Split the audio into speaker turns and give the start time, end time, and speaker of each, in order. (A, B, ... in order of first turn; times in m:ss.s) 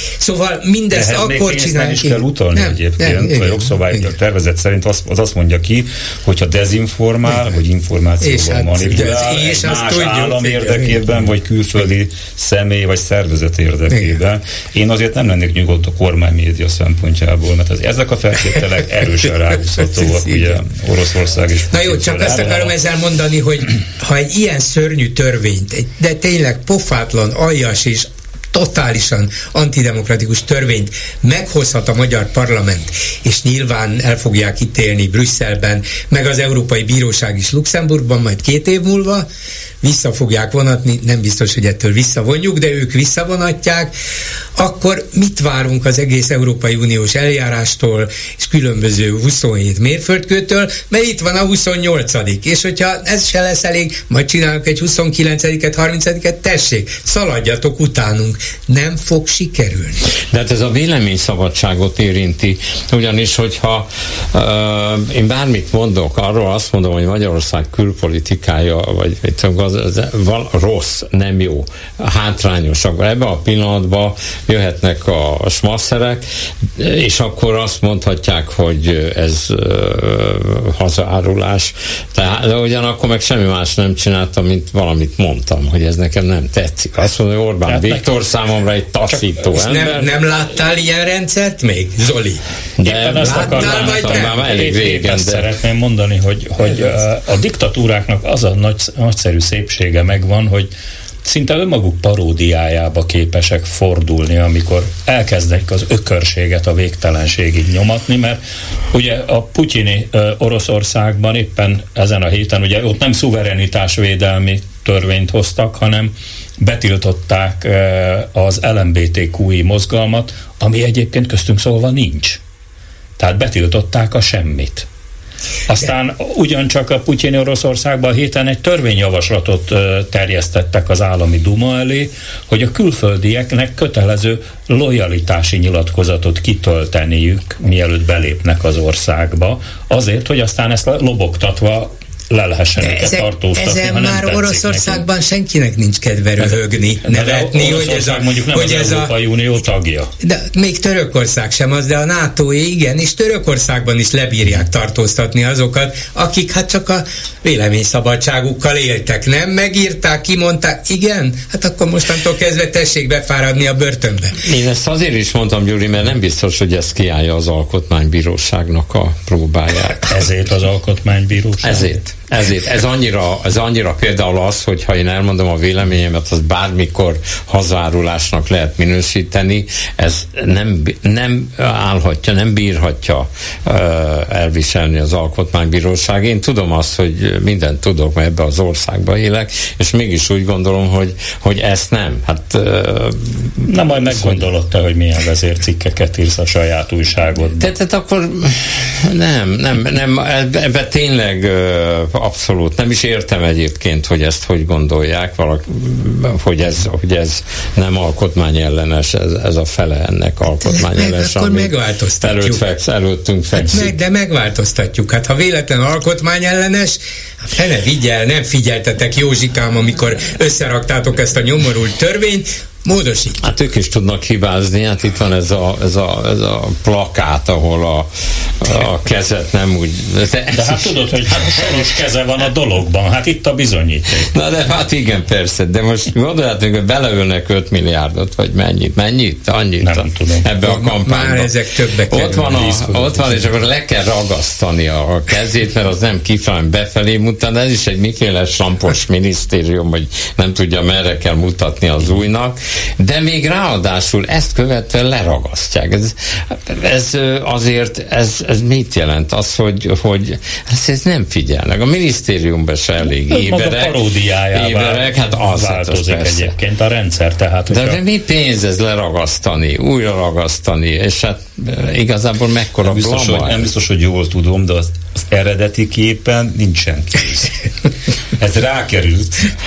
0:00.2-0:04.1 A
0:00.9-0:22.7 B
0:08.2-0:11.1 A
0:13.9-0:14.2 A
0:19.3-0:20.6 A
0:21.7-0:39.3 A
0:39.8-0:43.9 A
0:44.6-1:00.0 A
1:00.3-1:16.2 C
1:16.8-1:30.1 C
1:27.6-1:28.2 D
1:29.0-1:30.0 D
1:29.5-1:32.4 A
1:32.8-1:35.5 C
1:32.8-1:40.7 D
1:33.2-1:34.5 A
1:41.2-1:48.4 D
1:48.9-2:02.4 D
2:03.2-2:04.9 D
2:05.7-2:25.0 D
2:22.8-2:29.1 A
2:26.4-2:30.1 D
2:30.2-2:44.4 A
2:44.4-2:50.1 C
2:50.1-2:51.9 D
2:51.6-3:14.5 C
3:13.7-3:17.7 D
3:17.6-3:34.0 C
3:30.6-3:32.6 A
3:33.5-3:37.0 A
3:37.5-3:43.4 A
3:43.4-3:48.1 C
3:48.6-3:51.9 C
3:50.5-3:54.3 D
3:54.2-4:01.5 C
3:59.8-4:00.4 D
4:00.6-4:03.4 A
4:02.1-4:26.5 C
4:23.3-4:28.0 D
4:27.7-4:33.7 C
4:32.8-4:37.5 B
4:38.4-4:39.4 B